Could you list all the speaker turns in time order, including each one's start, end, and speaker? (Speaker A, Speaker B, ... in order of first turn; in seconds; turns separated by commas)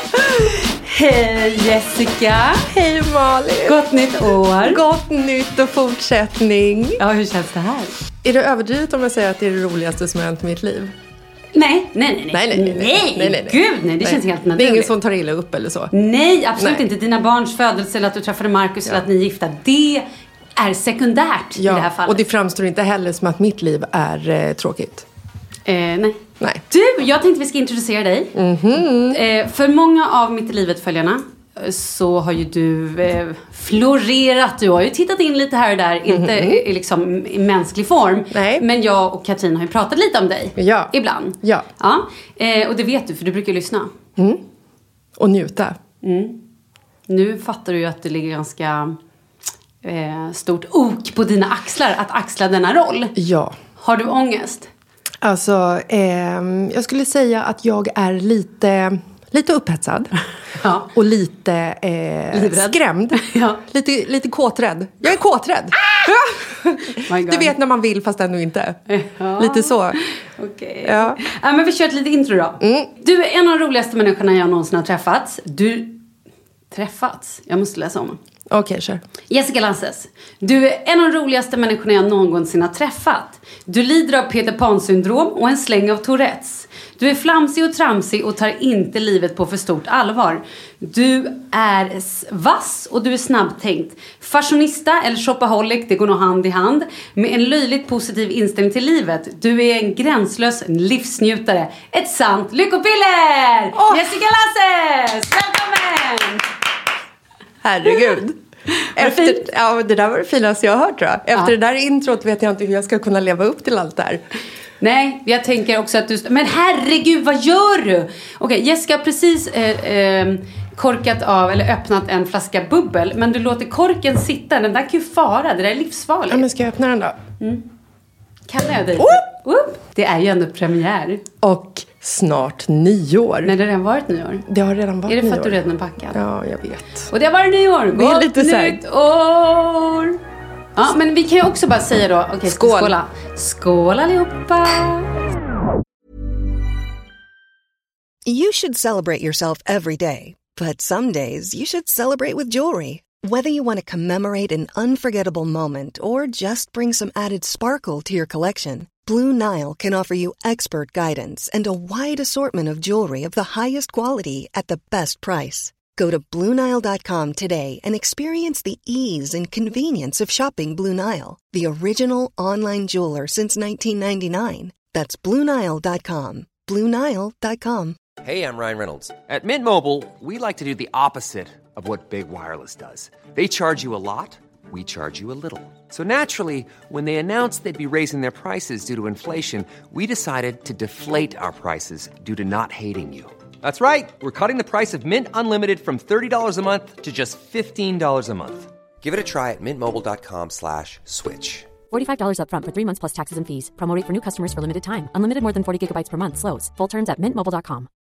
Speaker A: 0.6-2.7, Speaker B: 2.7-7.0, Speaker A: 3.6-4.8, Speaker A: 7.0-7.9, Speaker B: 8.2-10.9, Speaker A: 11.5-14.9, Speaker B: 12.3-15.9, Speaker A: 15.9-20.0, Speaker B: 16.6-16.8, Speaker A: 20.6-22.2, Speaker B: 21.6-25.1, Speaker A: 25.6-28.3, Speaker B: 28.3-29.2, Speaker A: 29.1-43.9, Speaker B: 36.1-36.6, Speaker B: 38.3-38.6, Speaker B: 40.6-41.7, Speaker B: 44.2-44.4, Speaker B: 45.2-45.8, Speaker A: 46.0-46.4, Speaker A: 47.1-49.0, Speaker A: 49.8-53.1, Speaker B: 53.1-53.6, Speaker A: 53.8-54.7, Speaker B: 55.2-60.1, Speaker A: 60.6-60.9, Speaker B: 60.9-68.8, Speaker A: 62.3-63.6, Speaker A: 67.0-67.5, Speaker A: 68.9-76.0, Speaker B: 69.4-70.0, Speaker B: 70.8-71.2, Speaker B: 72.6-72.9, Speaker A: 76.7-78.2, Speaker B: 78.5-79.0, Speaker A: 79.3-106.5, Speaker B: 103.7-104.1, Speaker B: 107.6-108.4, Speaker A: 108.8-109.4, Speaker B: 108.9-114.2, Speaker A: 114.8-126.4, Speaker B: 126.3-127.2, Speaker A: 127.4-127.7, Speaker A: 128.5-131.2, Speaker B: 129.0-129.2, Speaker B: 131.4-133.5, Speaker A: 133.4-134.4, Speaker B: 134.4-135.6, Speaker A: 135.1-136.2, Speaker B: 136.1-137.1, Speaker A: 137.1-140.2, Speaker B: 137.9-138.8, Speaker A: 140.8-145.1, Speaker B: 142.4-142.9, Speaker C: 148.2-178.0, Speaker D: 178.2-201.7, Speaker E: 201.9-207.9